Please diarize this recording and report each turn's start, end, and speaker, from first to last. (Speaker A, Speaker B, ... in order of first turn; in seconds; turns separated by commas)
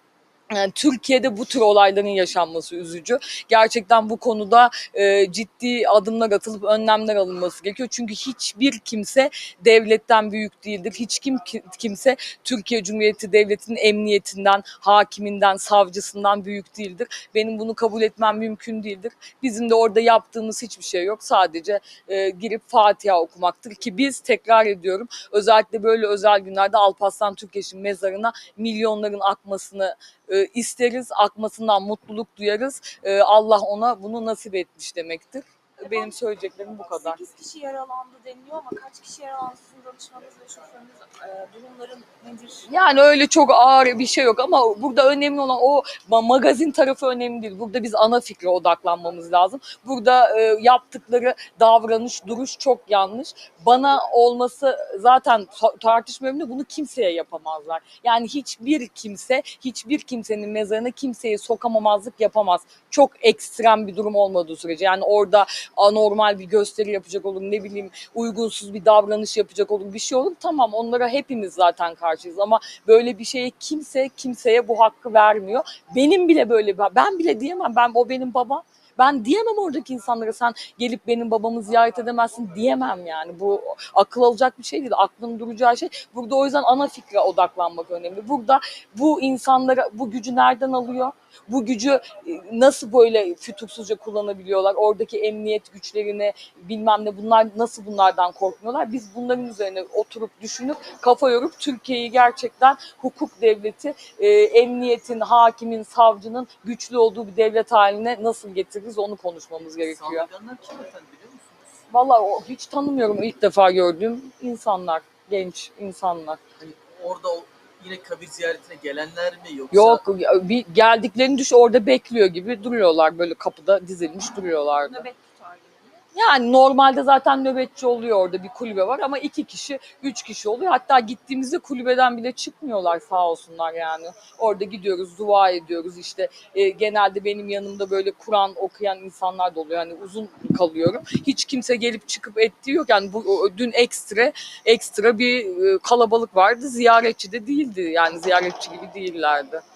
Speaker A: 0.5-37.2, Speaker B: 35.8-42.7, Speaker A: 42.7-110.3, Speaker C: 109.8-111.8, Speaker A: 111.9-116.4, Speaker C: 116.6-120.0, Speaker A: 119.7-125.0, Speaker B: 124.7-126.0, Speaker A: 126.1-149.6